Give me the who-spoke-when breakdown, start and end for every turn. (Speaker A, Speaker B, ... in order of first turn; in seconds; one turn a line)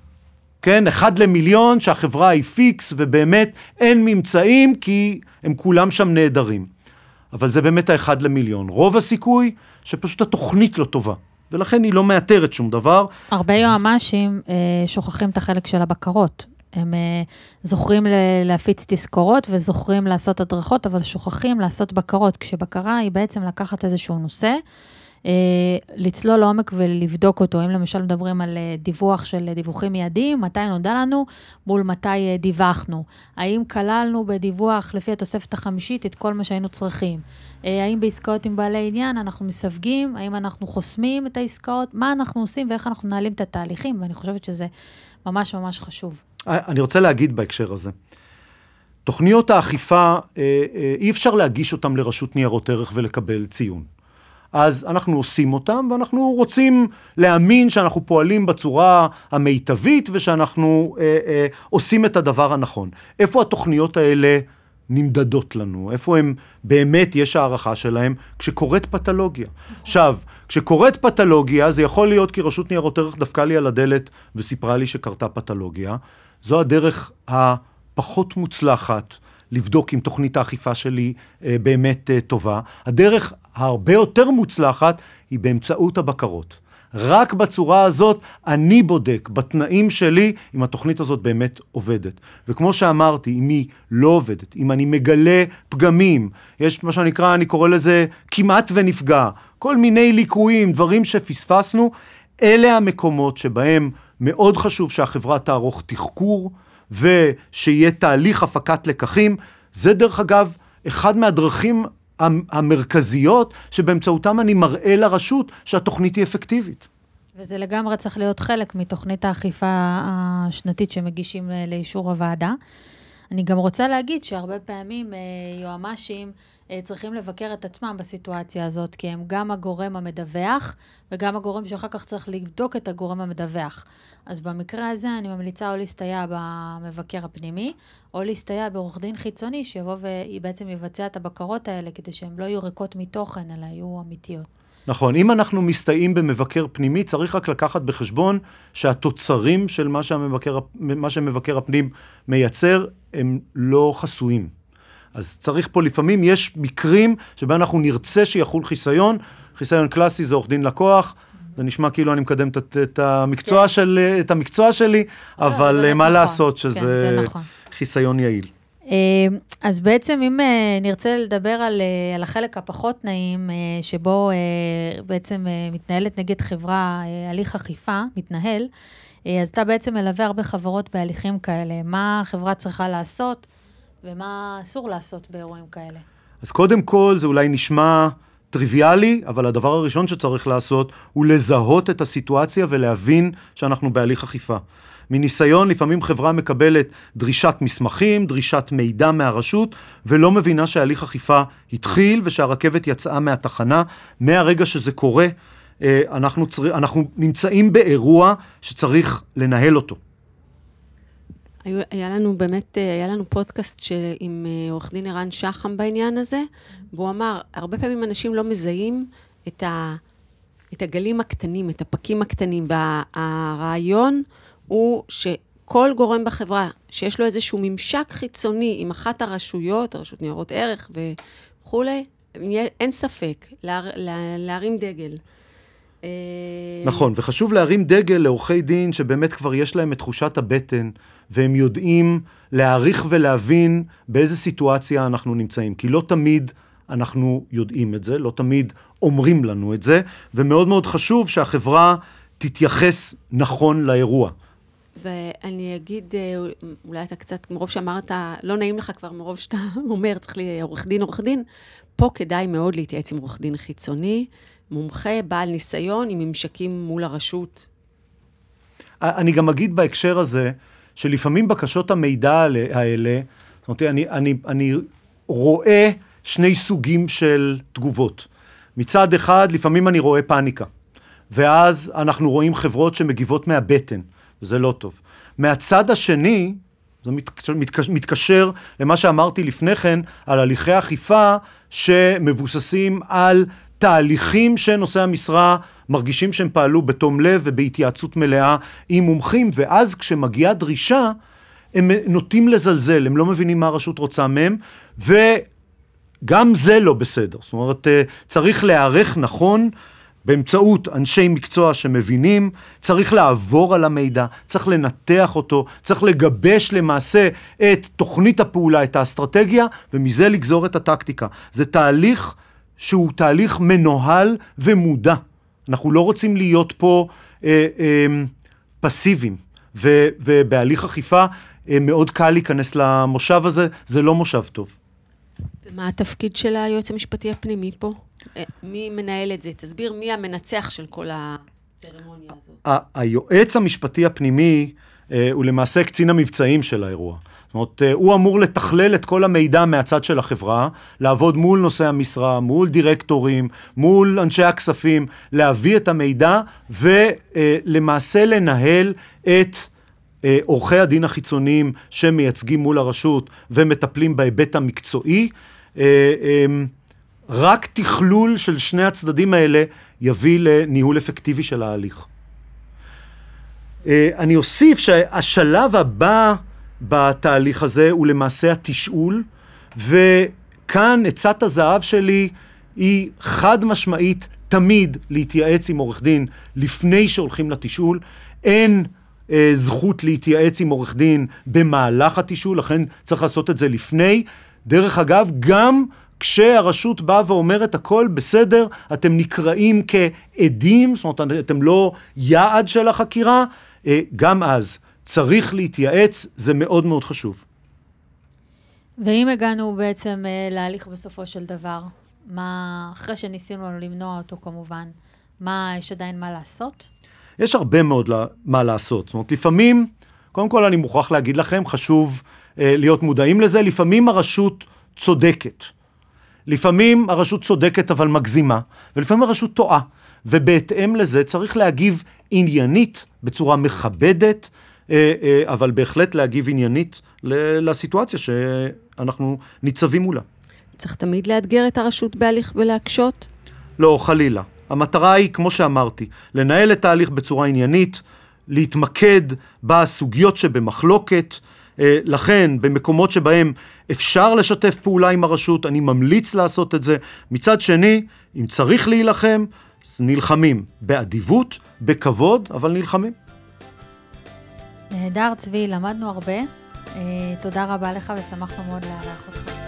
Speaker A: 0.6-6.7
Speaker A: 7.3-13.8
Speaker B: 13.3-24.6
Speaker B: 25.3-44.7
Speaker B: 45.2-46.2
Speaker A: 46.5-47.9
Speaker A: 49.0-53.9
Speaker A: 54.5-116.8
Speaker B: 117.4-122.6
Speaker B: 123.3-144.5
Speaker A: 144.9-154.5
Speaker A: 155.1-168.5
Speaker B: 165.4-167.5
Speaker B: 168.9-178.7
Speaker B: 179.3-183.5
Speaker B: 184.0-186.0
Speaker A: 186.4-210.0
Speaker C: 211.7-220.0
Speaker C: 220.7-235.2
Speaker C: 236.0-237.1
Speaker A: 236.8-254.3
Speaker C: 255.0-261.4
Speaker C: 262.0-267.7
Speaker A: 269.0-280.7
Speaker A: 281.3-301.2
Speaker A: 301.7-305.5
Speaker A: 306.2-309.7
Speaker A: 310.2-334.8
Speaker C: 335.6-342.6
Speaker A: 342.6-359.7
Speaker A: 360.2-366.7
Speaker A: 367.3-372.1
Speaker A: 373.9-407.4
Speaker B: 409.0-416.9
Speaker A: 417.4-425.7
Speaker A: 426.5-440.2
Speaker C: 440.8-443.3
Speaker A: 443.8-463.1
Speaker B: 464.9-469.6